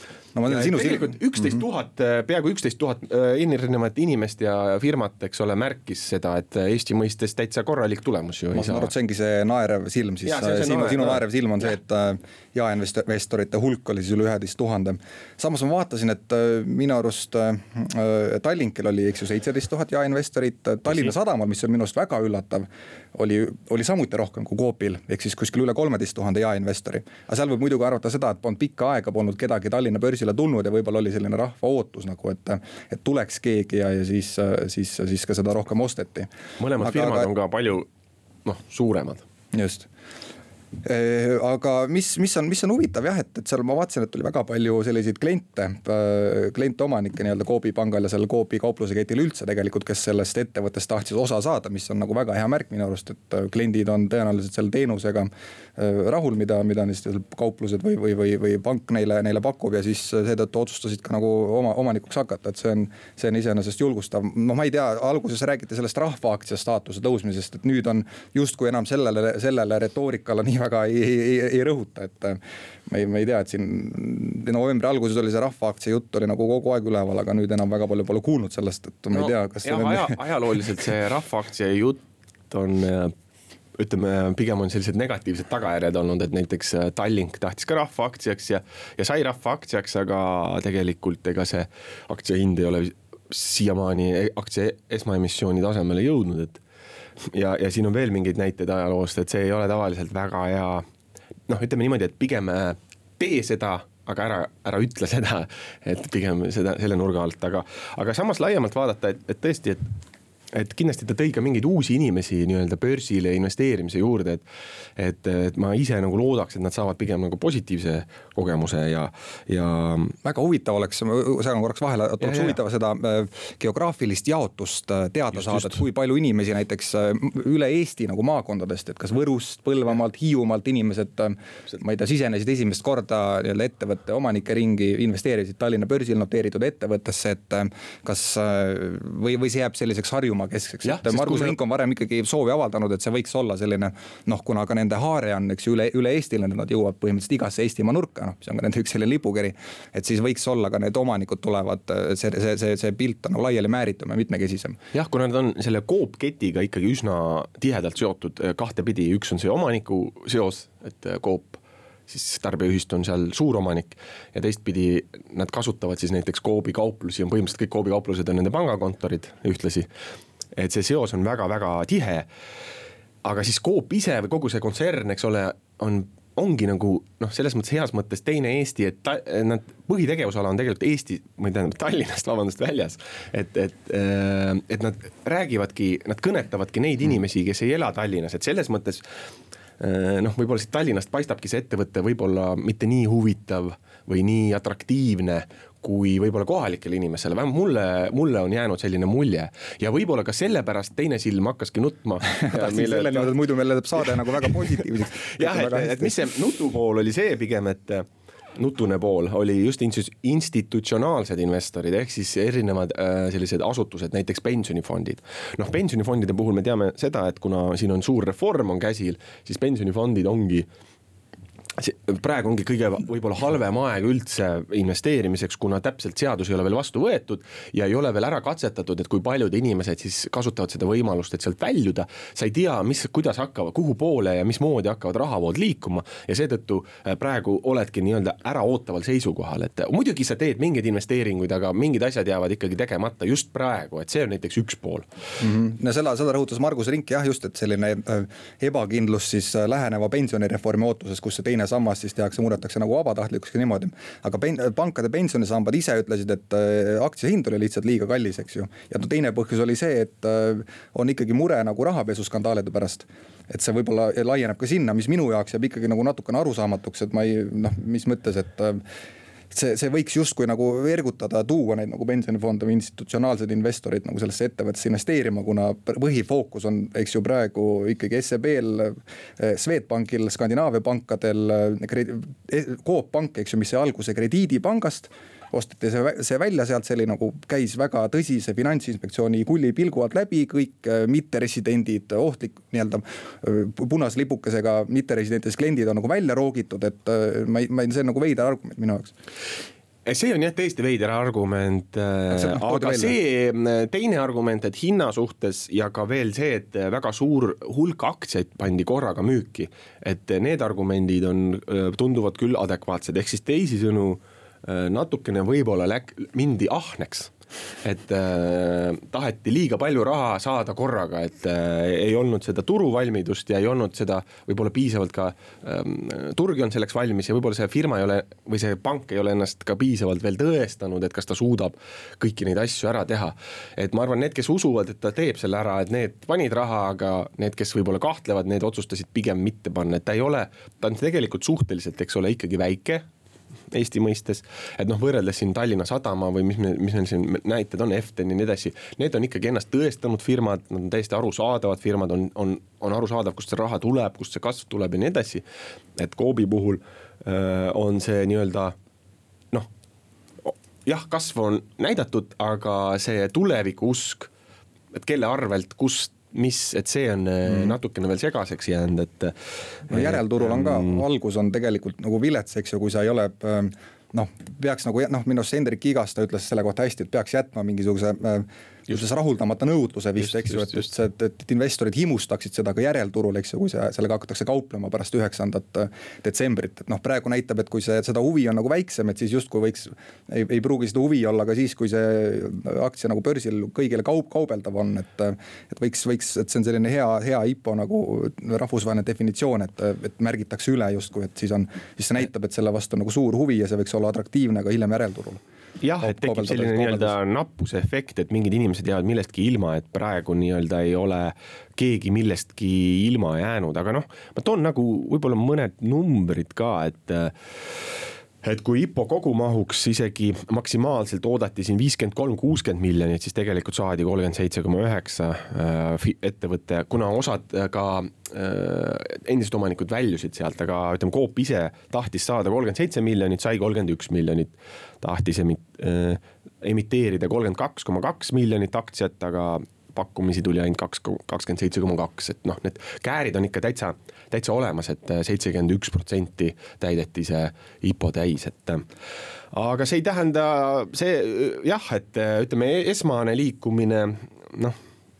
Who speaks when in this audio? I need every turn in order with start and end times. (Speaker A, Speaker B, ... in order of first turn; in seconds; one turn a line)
Speaker A: 0.3-1.6
Speaker B: 0.5-8.9
Speaker A: 8.5-37.3
Speaker B: 10.2-11.2
Speaker B: 36.6-37.9
Speaker B: 38.4-39.2
Speaker A: 39.5-39.9
Speaker A: 40.8-80.1
Speaker B: 79.1-83.1
Speaker B: 83.8-96.6
Speaker B: 97.2-100.8
Speaker B: 101.5-109.9
Speaker B: 110.5-114.4
Speaker B: 115.0-120.1
Speaker A: 120.2-154.8
Speaker B: 122.2-122.6
Speaker B: 125.4-125.7
Speaker B: 140.8-141.5
Speaker B: 154.9-169.9
Speaker B: 170.5-172.3
Speaker B: 173.2-189.1
Speaker B: 189.8-203.3
Speaker A: 202.4-206.1
Speaker B: 204.4-204.8
Speaker B: 205.3-220.7
Speaker B: 221.8-245.1
Speaker A: 245.4-268.8
Speaker A: 269.5-299.1
Speaker B: 300.1-317.3
Speaker A: 302.3-303.1
Speaker B: 317.8-343.1
Speaker B: 343.7-355.4
Speaker B: 356.0-358.8
Speaker B: 360.4-364.3
Speaker B: 364.9-369.3
Speaker A: 367.5-367.7
Speaker B: 369.9-371.0
Speaker A: 369.9-405.4
Speaker B: 405.8-448.8
Speaker A: 406.0-407.1
Speaker B: 449.5-454.8